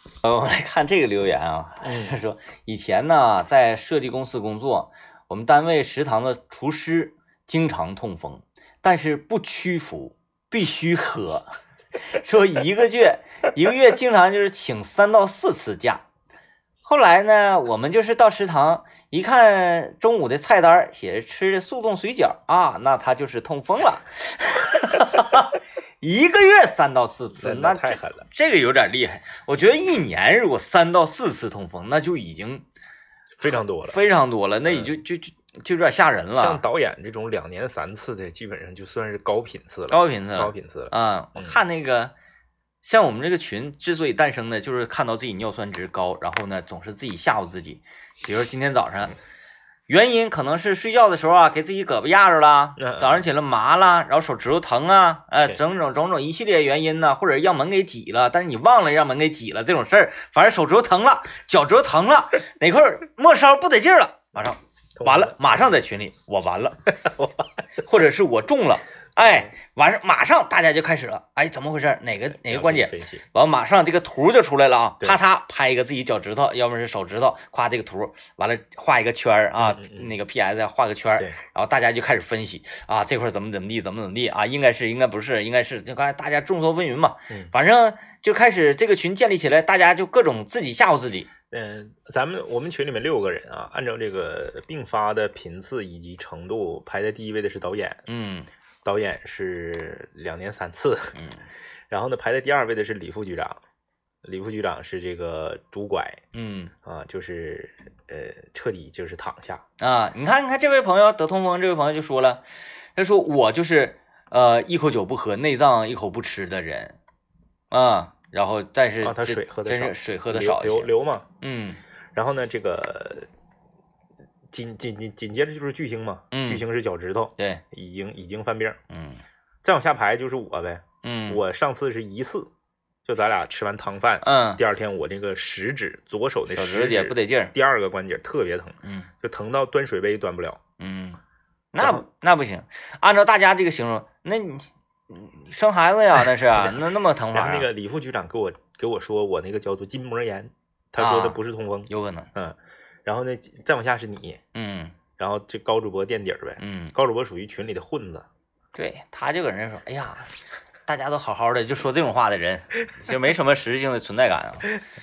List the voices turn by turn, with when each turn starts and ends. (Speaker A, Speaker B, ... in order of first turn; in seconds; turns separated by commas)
Speaker A: 0.2-11.5, Speaker B: 1.8-2.2, Speaker A: 12.1-16.0, Speaker A: 16.8-32.6, Speaker B: 27.4-28.2, Speaker B: 33.4-34.0, Speaker A: 33.5-36.6, Speaker B: 34.7-34.9, Speaker B: 36.4-41.6, Speaker A: 39.9-42.1, Speaker A: 42.8-49.1, Speaker A: 49.9-91.3, Speaker B: 52.8-53.3, Speaker B: 65.0-65.7, Speaker B: 69.2-69.5, Speaker B: 72.3-73.2, Speaker B: 79.6-80.1, Speaker B: 91.5-98.0, Speaker A: 98.1-98.5, Speaker B: 98.8-101.2, Speaker A: 101.2-101.5, Speaker B: 101.9-103.6, Speaker B: 104.2-106.2, Speaker A: 106.3-106.7, Speaker B: 106.8-109.6, Speaker A: 109.8-112.4, Speaker A: 113.0-117.0, Speaker A: 117.7-121.8, Speaker B: 119.0-121.3, Speaker B: 122.1-123.3, Speaker B: 124.5-128.8, Speaker A: 126.3-126.6, Speaker A: 127.4-127.6, Speaker A: 128.9-129.2, Speaker B: 129.6-132.5, Speaker A: 131.0-131.4, Speaker B: 133.0-140.6, Speaker A: 134.2-134.6, Speaker A: 136.5-137.5, Speaker A: 138.8-139.1, Speaker A: 140.8-141.2, Speaker A: 141.7-147.7, Speaker B: 141.8-142.0, Speaker B: 146.5-154.4, Speaker A: 151.0-152.3, Speaker A: 154.5-154.9, Speaker B: 155.2-158.3, Speaker A: 156.6-156.9, Speaker A: 158.7-160.3, Speaker A: 160.8-164.7